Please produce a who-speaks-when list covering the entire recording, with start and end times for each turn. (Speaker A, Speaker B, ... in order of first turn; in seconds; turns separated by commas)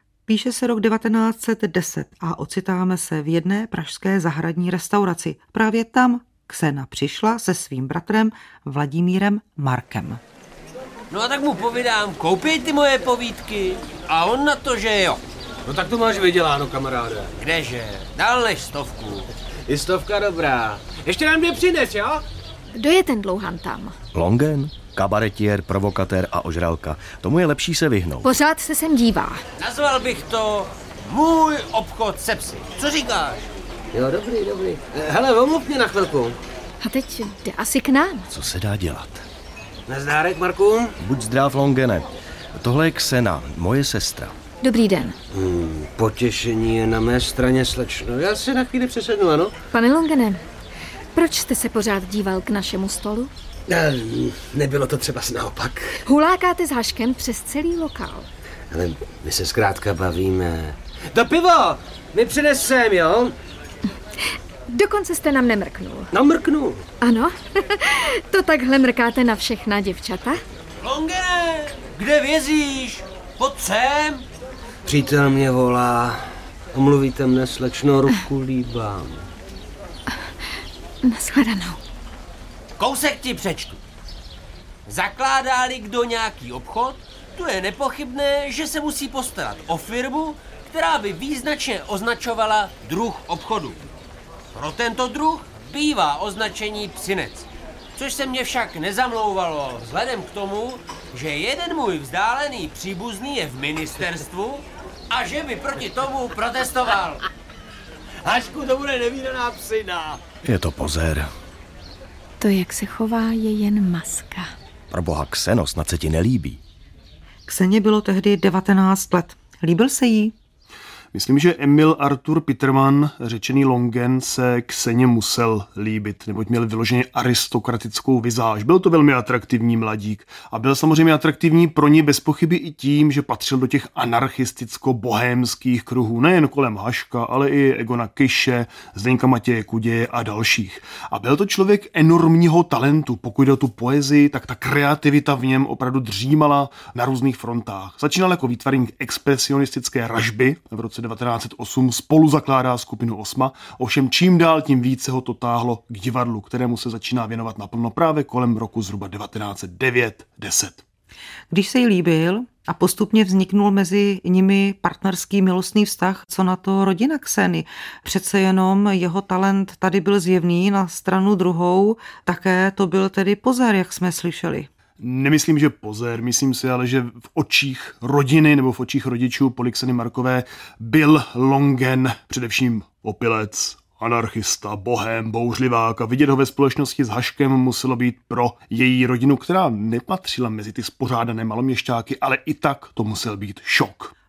Speaker A: 0.3-10.2, Speaker B: 11.1-15.2, Speaker C: 15.7-17.3, Speaker B: 17.4-19.3, Speaker C: 19.6-22.2, Speaker D: 22.7-24.0, Speaker E: 24.1-28.3, Speaker D: 28.2-29.4, Speaker B: 29.6-33.5, Speaker C: 33.9-36.3, Speaker D: 36.8-38.3, Speaker E: 38.3-39.2, Speaker C: 39.9-40.9, Speaker E: 41.0-44.3, Speaker D: 44.6-45.2, Speaker C: 45.3-49.5, Speaker D: 49.7-50.4, Speaker D: 51.1-53.3, Speaker C: 53.7-56.0, Speaker D: 56.0-58.3, Speaker C: 58.7-63.3, Speaker D: 64.7-66.1, Speaker C: 66.1-66.8, Speaker D: 67.0-70.4, Speaker B: 70.8-74.2, Speaker C: 74.8-79.2, Speaker D: 81.0-81.8, Speaker B: 82.8-83.8, Speaker B: 84.8-93.8, Speaker B: 94.5-107.2, Speaker B: 108.2-110.2, Speaker E: 110.4-111.3, Speaker D: 112.4-114.5, Speaker E: 114.9-116.6, Speaker A: 117.5-120.3, Speaker F: 121.1-160.8, Speaker A: 161.5-174.7, Speaker F: 175.0-194.1